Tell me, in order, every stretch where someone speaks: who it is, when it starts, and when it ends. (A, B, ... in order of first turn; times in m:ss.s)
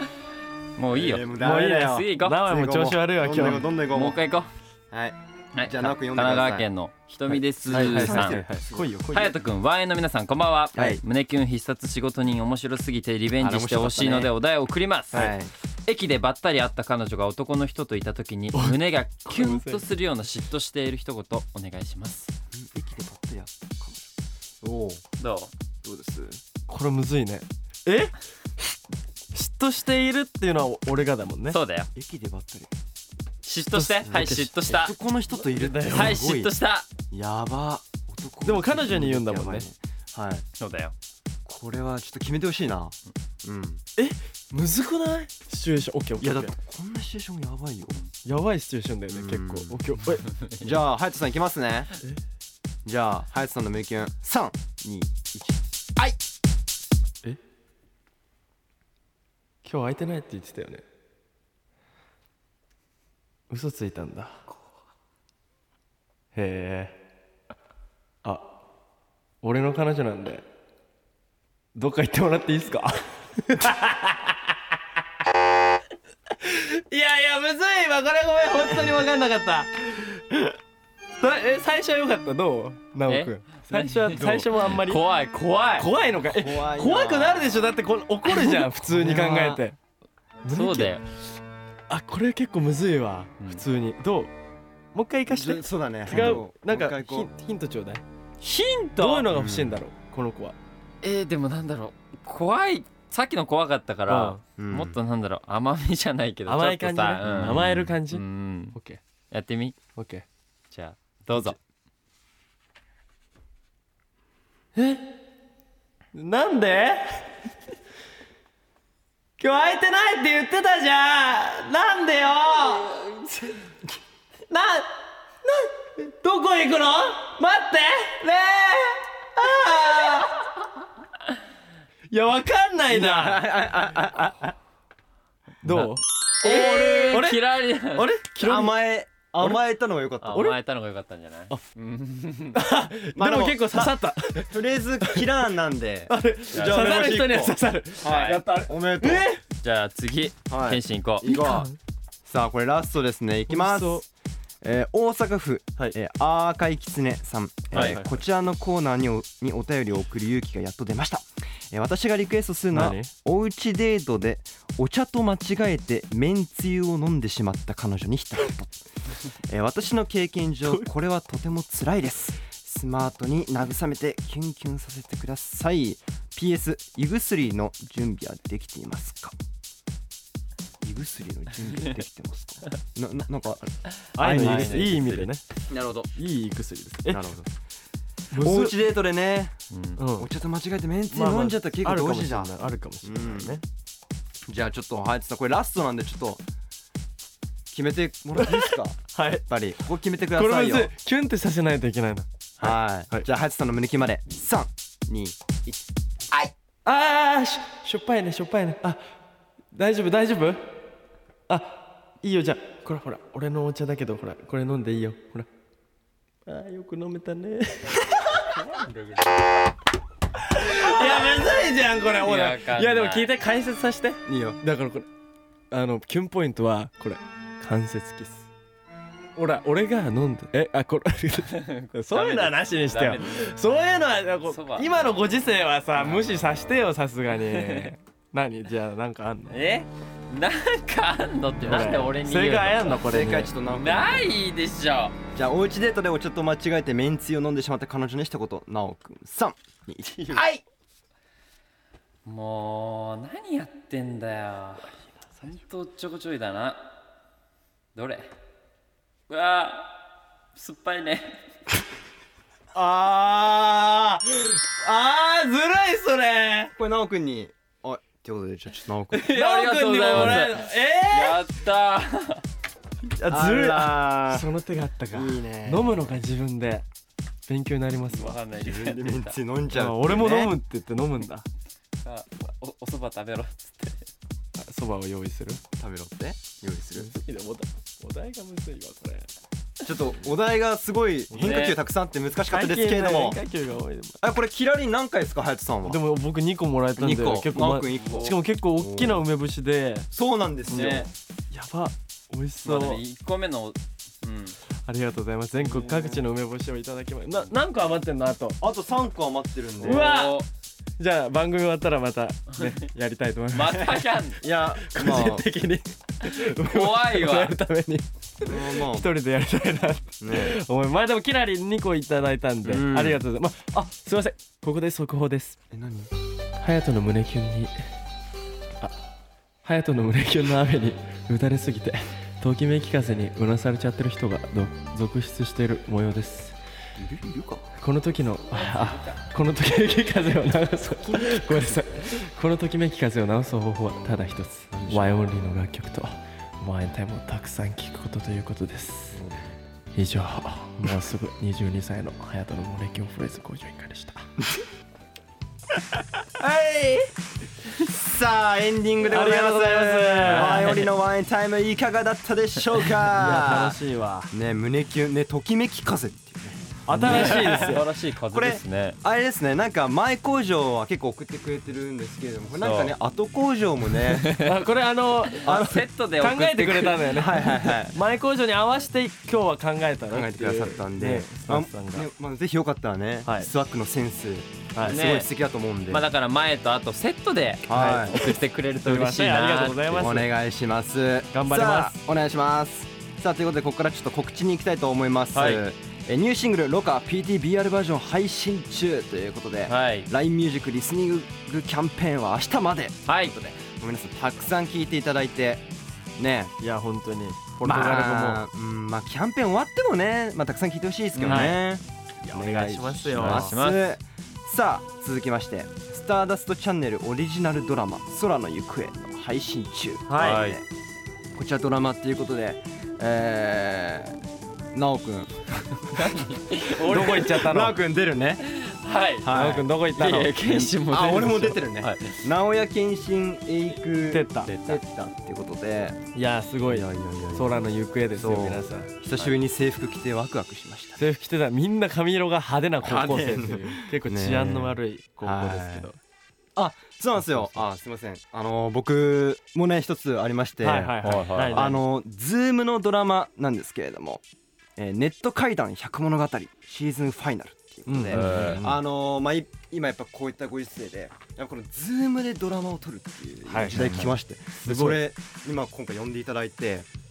0:00.8-0:02.5 A
0:00.9-0:04.2 B
0:01.4-0:03.7 C
0:03.4-0:04.5 A
0:04.9-0:06.7 B
0:05.5-0:08.4 A
0:07.7-0:09.3 C
0:07.7-0:08.9 B
0:09.1-0:15.3 A
0:10.7-0:11.0 B
0:13.4-0:14.3 B
0:15.1-0:15.5 B
0:15.8-0:22.3 A
0:18.5-0:19.8 C
0:22.5-0:24.1 B
0:24.6-0:25.0 B
0:25.2-0:25.5 A
0:25.8-0:26.4 B
0:26.7-0:28.1 C
0:29.3-0:31.6 C
0:31.5-0:31.9 A
0:31.9-0:32.7 B
0:33.4-0:34.9 A
0:33.7-0:34.5 C
0:34.0-0:36.5 B
0:35.4-0:36.2 C
0:35.9-0:36.9 A
0:37.1-0:40.4 B
0:38.4-0:39.6 C
0:40.6-0:40.9 A
0:41.4-0:43.8 B
0:44.0-0:46.5 C
0:46.2-0:48.0 B
0:48.2-0:50.3 C
0:49.1-0:49.8 B
0:50.3-0:50.7 A
0:50.6-0:51.9 B
0:52.8-0:56.2 B
0:59.6-1:00.8 C
1:03.5-1:04.4 C
1:06.3-1:07.0 C
1:09.4-1:10.4 C
1:11.7-1:14.5 C
1:16.4-1:20.6 C
1:21.2-1:25.0 C
1:23.1-1:25.9 A
1:24.1-1:24.5 B
1:25.8-1:29.8 C
1:26.2-1:27.6 B
1:28.3-1:29.6 A
1:28.9-1:29.6 B
1:30.4-1:31.0 C
1:30.5-1:31.0 A
1:31.9-1:34.3 C
1:34.9-1:38.0 C
1:35.3-1:37.3 B
1:36.1-1:36.4 A
1:38.4-1:39.3 A
1:39.0-1:40.6 C
1:39.3-1:39.8 B
1:41.0-1:48.8 A
1:44.1-1:44.4 C
1:44.6-1:45.0 B
1:46.5-1:48.2 C
1:48.7-1:49.0 C
1:49.3-1:49.8 A
1:50.0-1:50.2 C
1:50.7-1:51.6 A
1:54.7-1:55.0 C
1:56.1-1:57.3 C
1:59.4-2:03.0 C
2:02.8-2:03.6 A
2:04.5-2:10.5 C
2:12.1-2:13.5 C
2:12.9-2:14.5 B
2:15.6-2:18.8 C
2:15.6-2:18.1 A
2:16.5-2:16.8 B
2:18.4-2:20.4 B
2:20.2-2:22.6 A
2:20.3-2:20.6 C
2:22.5-2:25.4 C
2:23.1-2:29.3 B
2:26.1-2:29.4 C
2:26.5-2:27.1 A
2:28.0-2:28.4 A
2:29.6-2:31.3 A
2:30.5-2:31.7 B
2:31.2-2:31.8 C
2:32.2-2:34.0 B
2:33.5-2:34.0 C
2:34.6-2:59.3 B
2:37.7-2:38.2 C
2:37.7-2:38.0 A
2:42.7-2:43.1 C
3:00.8-3:05.1 B
3:04.1-3:05.4 C
3:04.2-3:05.3 A
3:05.7-3:06.1 B
3:06.2-3:07.3 C
3:07.1-3:07.5 B
3:08.3-3:08.7 C
3:08.3-3:09.6 B
3:09.7-3:10.0 A
3:10.0-3:10.3 C
3:10.1-3:13.6 B
3:11.1-3:13.6 C
3:14.5-3:16.4 B
3:17.7-3:20.9 B
3:18.4-3:19.4 C
3:20.3-3:23.2 C
3:22.6-3:26.5 B
3:26.8-3:29.0 C
3:29.7-3:30.6 C
3:31.5-3:35.5 C
3:36.4-3:38.5 C
3:38.7-3:39.3 A
3:40.4-3:45.1 C
3:42.2-3:43.3 A
3:44.2-3:44.6 B
3:45.7-3:48.5 C
3:49.4-3:59.6 C
3:51.5-3:53.5 A
3:54.5-3:55.1 A
3:56.0-3:56.4 A
3:57.4-3:57.9 A
3:59.5-4:05.2 A
4:01.6-4:03.5 C
4:03.0-4:04.4 B
4:05.3-4:10.6 B
4:12.2-4:16.8 A
4:17.9-4:18.3 A
4:19.3-4:20.0 A
4:20.5-4:21.4 A
4:22.7-4:26.7 C
4:26.8-4:29.3 B
4:29.1-4:31.4 C
4:29.1-4:32.4 A
4:30.1-4:30.5 B
4:33.1-4:36.8 C
4:33.3-4:34.5 B
4:35.1-4:36.2 B
4:37.5-4:38.4 C
4:38.1-4:39.3 A
4:38.6-4:40.6 B
4:39.7-4:41.4 C
4:42.0-4:44.1 A
4:44.6-4:45.6 C
4:45.8-4:47.1 B
4:46.9-4:49.3 C
4:49.8-4:53.4 B
4:51.4-4:51.8 A
4:51.4-4:51.6 C
4:52.5-4:54.2 C
4:54.2-4:56.0 B
4:55.8-5:00.1 C
4:57.0-4:59.2 B
4:58.0-4:58.3 A
5:00.1-5:01.1 B
5:00.7-5:03.0 C
5:00.7-5:01.1 A
5:02.6-5:04.6 A
5:04.8-5:08.6 C
5:05.7-5:06.2 B
5:08.6-5:10.1 B
5:09.8-5:10.4 C
5:09.8-5:10.5 A
5:11.0-5:14.1 C
5:13.5-5:14.4 A
5:14.4-5:15.5 B
5:14.7-5:25.6 C
5:16.2-5:17.5 A
5:18.4-5:19.1 B
5:20.2-5:20.6 B
5:22.6-5:23.2 B
5:25.7-5:26.1 B
5:26.6-5:27.7 C
5:29.6-5:36.6 C
5:37.0-5:37.7 B
5:37.8-5:49.2 C
5:38.6-5:39.2 A
5:44.7-5:45.2 B
5:49.1-5:49.4 B
5:49.9-5:54.2 C
5:56.4-5:57.0 B
5:57.8-6:03.8 B
5:59.1-6:00.9 C
6:00.2-6:00.9 A
6:03.1-6:04.3 C
6:04.3-6:14.4 B
6:06.9-6:07.9 C
6:06.9-6:09.0 A
6:12.6-6:12.9 A
6:14.2-6:14.5 A
6:14.3-6:22.1 C
6:15.3-6:17.3 A
6:15.5-6:15.8 B
6:17.1-6:18.0 B
6:20.1-6:26.0 B
6:24.7-6:25.0 C
6:24.8-6:25.3 A
6:25.9-6:30.1 A
6:27.7-6:28.2 B
6:27.7-6:30.3 C
6:29.9-6:45.6 B
6:31.3-6:31.9 C
6:35.3-6:35.6 A
6:39.7-6:40.1 A
6:43.1-6:43.3 A
6:46.2-6:46.5 B
6:46.6-6:48.4 C
6:47.6-7:00.6 B
6:51.1-6:51.6 A
6:51.2-6:51.6 C
6:52.2-6:53.5 C
6:53.1-6:53.9 A
7:00.1-7:00.4 C
7:00.1-7:00.6 A
7:01.3-7:04.2 B
7:04.7-7:08.5 B
7:05.9-7:07.2 A
7:06.6-7:07.8 C
7:08.4-7:09.3 A
7:09.2-7:09.7 B
7:09.3-7:10.7 C
7:09.9-7:12.2 A
7:10.7-7:16.0 B
7:14.1-7:14.5 C
7:14.4-7:14.8 A
7:16.1-7:18.9 C
7:16.7-7:17.6 B
7:18.1-7:21.0 B
7:21.0-7:26.0 C
7:22.8-7:25.9 B
7:26.6-7:34.2 B
7:30.6-7:31.8 C
7:31.0-7:31.7 A
7:34.8-7:46.9 B
7:37.9-7:38.8 C
7:38.1-7:38.6 A
7:43.5-7:45.0 C